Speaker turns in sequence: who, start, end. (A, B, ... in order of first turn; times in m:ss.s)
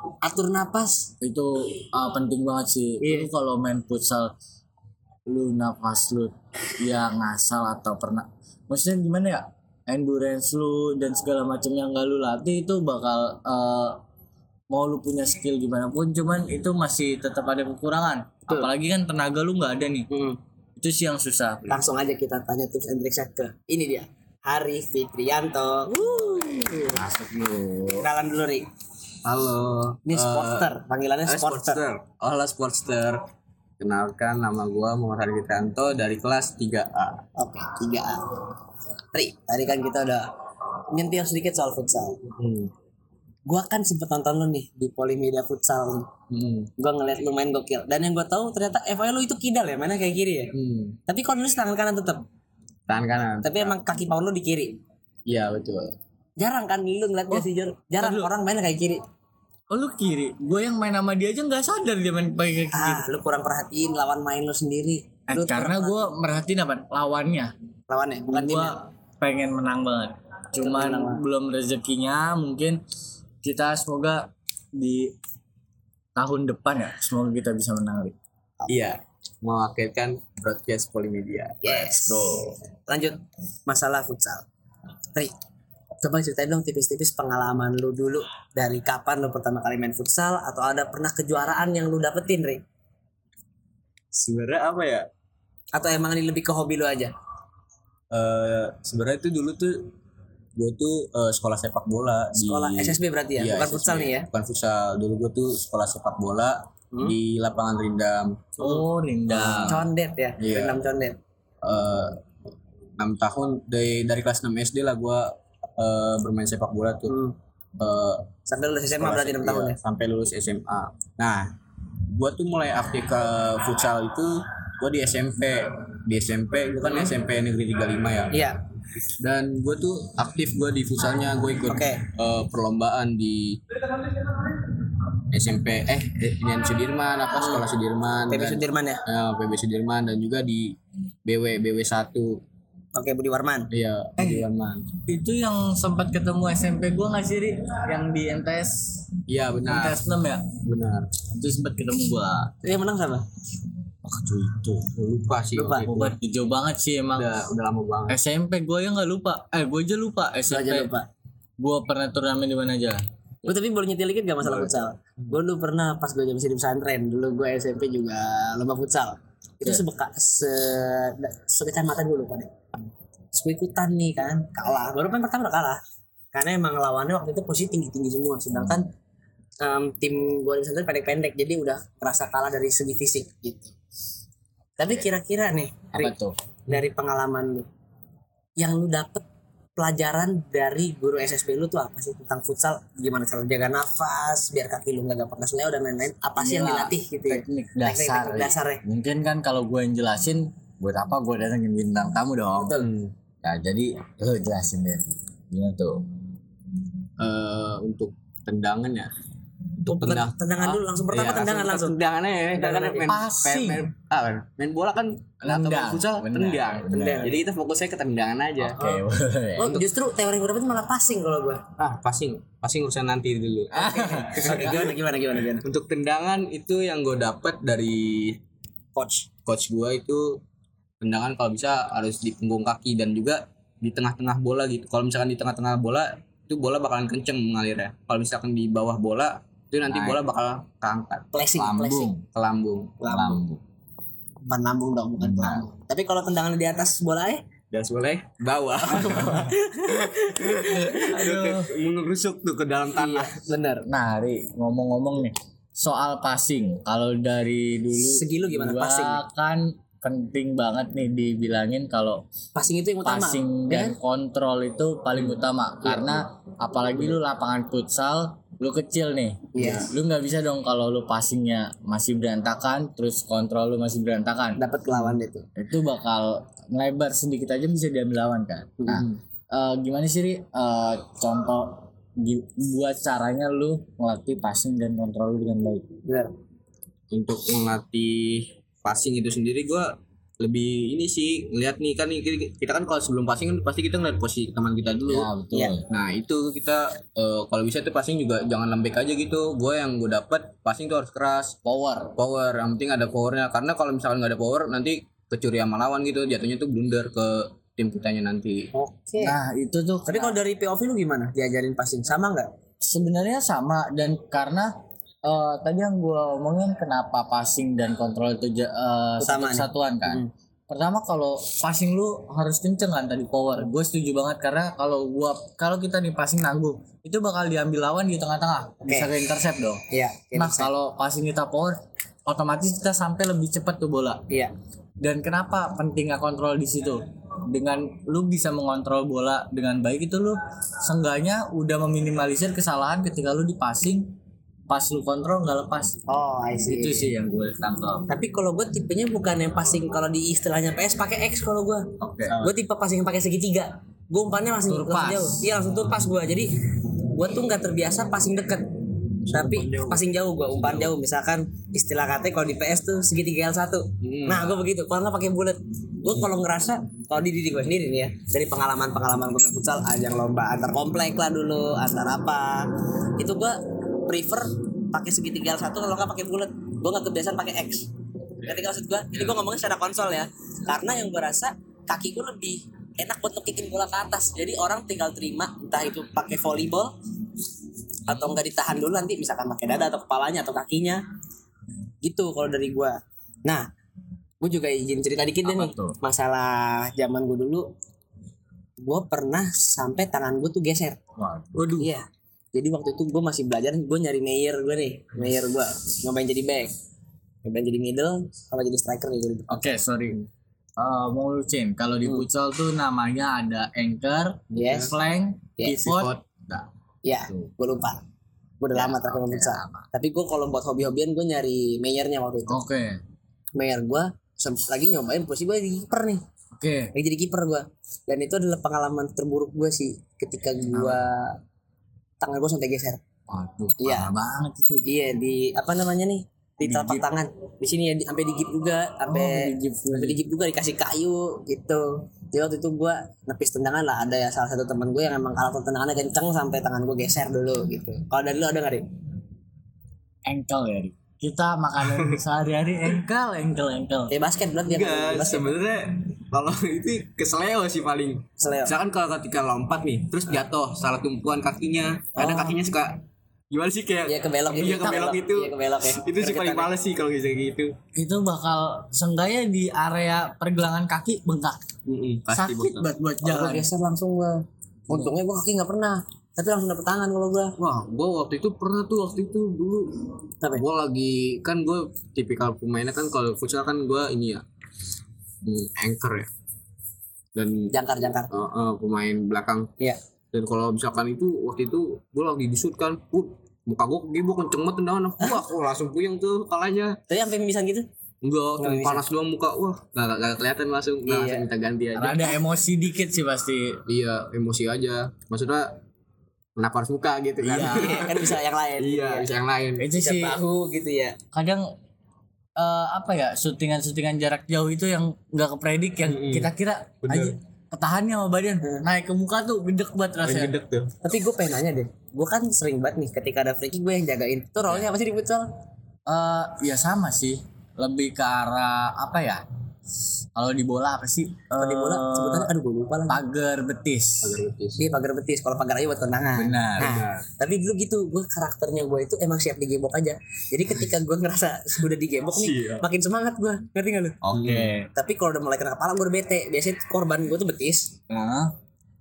0:00.2-0:01.1 A
0:01.2-0:04.3 B
0:03.0-0:03.3 A
0:05.3-0:14.0 B
0:14.7-0:20.1 B
0:20.1-0:20.4 A
0:20.8-0:21.8 B
0:21.7-0:26.0 A
0:25.9-0:28.1 B
0:28.0-0:28.6 A
0:29.2-0:30.7 C
0:30.1-0:31.8 A
0:31.3-0:33.2 C
0:33.8-0:37.2 C
0:37.4-0:38.2 A
0:39.1-0:40.3 A
0:40.9-0:42.2 A
0:42.4-0:42.7 C
0:43.5-0:46.1 A
0:46.3-0:46.7 C
0:46.8-0:50.5 A
0:50.6-0:51.0 C
0:51.1-0:52.2 A
0:52.9-0:53.8 C
0:53.4-0:54.8 A
0:55.3-0:55.9 C
0:56.4-0:59.0 A
0:58.0-0:58.3 B
0:59.7-1:03.0 B
1:02.7-1:06.1 A
1:05.3-1:07.5 B
1:07.9-1:08.8 A
1:08.3-1:12.8 B
1:10.6-1:11.2 A
1:13.4-1:15.1 B
1:16.2-1:18.1 B
1:18.7-1:22.4 C
1:21.6-1:24.5 A
1:26.0-1:32.6 A
1:34.1-1:35.1 C
1:35.7-1:37.1 A
1:38.1-1:39.9 C
1:40.6-1:48.7 C
1:42.4-1:44.3 A
1:48.6-1:49.8 B
1:49.3-1:49.8 C
1:49.6-1:51.2 A
1:50.4-1:50.8 C
1:51.6-1:52.2 C
1:53.0-1:57.1 C
1:57.1-1:57.4 A
1:57.8-1:58.3 C
1:58.5-1:59.8 A
1:59.0-2:01.5 C
2:02.1-2:08.5 C
2:08.3-2:08.6 A
2:09.2-2:13.8 C
2:11.7-2:12.1 A
2:15.3-2:22.4 C
2:18.3-2:19.0 A
2:22.9-2:23.7 A
2:23.7-2:24.9 C
2:24.2-2:24.4 B
2:25.1-2:29.2 B
2:29.3-2:30.0 C
2:29.7-2:30.5 B
2:30.6-2:31.2 C
2:31.2-2:32.7 B
2:32.6-2:33.2 A
2:34.0-2:34.9 B
2:34.9-2:36.1 C
2:35.6-2:35.9 A
2:35.9-2:37.3 B
2:37.1-2:38.2 C
2:38.1-2:40.9 B
2:40.5-2:41.1 A
2:41.6-2:43.0 B
2:43.4-2:52.5 A
2:44.4-2:45.4 C
2:53.3-2:55.8 A
2:56.3-2:58.9 A
2:59.6-3:03.7 A
3:04.8-3:06.1 A
3:05.9-3:06.4 B
3:06.7-3:07.7 A
3:08.6-3:09.2 A
3:09.8-3:18.8 A
3:16.4-3:22.8 B
3:22.6-3:22.9 A
3:22.8-3:23.1 C
3:23.4-3:26.0 B
3:27.2-3:29.1 C
3:29.8-3:38.8 C
3:29.9-3:32.0 A
3:32.6-3:33.1 A
3:33.0-3:33.9 B
3:35.4-3:37.3 B
3:36.9-3:37.4 A
3:38.6-3:39.8 B
3:38.8-3:39.0 A
3:39.6-3:41.6 A
3:41.8-3:44.9 C
3:43.7-3:44.8 B
3:44.1-3:45.6 A
3:45.6-3:48.4 C
3:49.0-3:49.3 A
3:49.5-3:50.4 C
3:51.0-4:01.2 C
3:59.9-4:00.2 B
4:01.3-4:02.1 A
4:01.6-4:02.2 B
4:02.3-4:03.4 C
4:03.0-4:03.4 A
4:03.0-4:03.6 B
4:04.4-4:07.4 A
4:05.2-4:05.7 B
4:07.7-4:09.5 C
4:08.8-4:11.1 A
4:10.4-4:13.3 C
4:10.9-4:11.7 B
4:12.9-4:13.9 A
4:13.9-4:22.2 B
4:18.0-4:19.2 A
4:22.6-4:24.0 A
4:23.0-4:34.6 B
4:25.8-4:26.2 A
4:29.5-4:29.9 A
4:34.6-4:35.4 A
4:35.6-4:45.8 B
4:46.1-4:46.3 A
4:47.1-4:55.3 C
4:55.1-4:55.9 B
4:55.9-5:01.6 C
5:01.6-5:02.1 B
5:02.2-5:08.7 C
5:08.7-5:09.4 A
5:09.2-5:10.4 B
5:10.1-5:12.5 A
5:12.8-5:14.7 B
5:15.2-5:29.8 B
5:19.2-5:20.3 A
5:29.9-5:30.7 A
5:30.4-5:34.2 B
5:35.0-5:44.1 B
5:44.7-5:46.0 B
5:46.1-5:47.1 A
5:46.6-5:48.1 B
5:48.1-5:51.9 A
5:52.0-5:52.4 B
5:52.3-5:52.5 C
5:52.4-5:56.5 A
5:54.7-5:55.5 B
5:57.1-5:58.7 A
5:59.2-6:01.0 C
5:59.3-6:17.9 A
6:04.0-6:04.7 C
6:18.4-6:26.9 A
6:28.1-6:31.0 A
6:28.1-6:28.3 B
6:32.0-6:32.9 A
6:34.4-6:37.6 A
6:35.4-6:36.0 B
6:38.8-6:41.0 A
6:41.2-6:41.7 B
6:41.6-6:41.8 C
6:41.8-6:46.7 A
6:47.4-6:49.7 A
6:49.5-6:50.2 B
6:50.8-6:56.1 B
6:54.5-6:54.9 A
6:54.6-6:54.8 C
6:55.6-6:55.9 A
6:55.8-6:56.7 C
6:57.0-6:58.0 A
6:58.6-7:02.6 A
6:58.7-6:59.9 B
7:02.5-7:03.0 B
7:03.6-7:06.2 A
7:06.6-7:06.9 B
7:06.9-7:11.4 A
7:10.7-7:11.0 B
7:12.2-7:13.0 A
7:13.3-7:14.9 B
7:13.8-7:14.1 A
7:14.9-7:28.9 A
7:16.6-7:17.0 B
7:19.1-7:20.2 B
7:30.3-7:34.1 B
7:31.9-7:32.2 C
7:34.1-7:35.6 A
7:34.7-7:47.8 C
7:38.4-7:38.7 A
7:42.2-7:42.6 A
7:44.1-7:46.7 A
7:44.7-7:45.2 B
7:48.0-7:51.6 B
7:52.0-7:52.9 C
7:52.3-7:53.7 B
7:53.2-7:57.5 A
7:57.6-8:04.4 C
8:05.4-8:06.3 C
8:07.4-8:07.7 C
8:07.7-8:08.3 A
8:08.3-8:09.7 C
8:10.3-8:17.0 C
8:17.1-8:17.9 A
8:18.2-8:22.4 C
8:18.6-8:19.0 A
8:21.0-8:21.5 A
8:22.0-8:23.8 B
8:23.9-8:25.8 C
8:26.6-8:29.9 C
8:27.4-8:29.3 A
8:27.5-8:28.0 B
8:29.8-8:30.4 B
8:29.9-8:31.2 A
8:31.3-8:31.7 B
8:32.6-8:40.6 B
8:36.1-8:36.5 C
8:37.0-8:37.4 C
8:40.2-8:40.9 C
8:41.0-8:45.4 A
8:46.1-8:49.4 B
8:50.4-8:52.5 B
8:51.6-8:53.2 A
8:53.1-8:54.4 B
8:54.2-8:54.8 C
8:54.8-9:04.2 A
8:56.4-8:57.0 B
8:56.8-8:57.2 C
9:02.3-9:02.9 C
9:04.2-9:04.9 B
9:04.3-9:04.7 C
9:05.0-9:07.9 A
9:08.1-9:08.5 B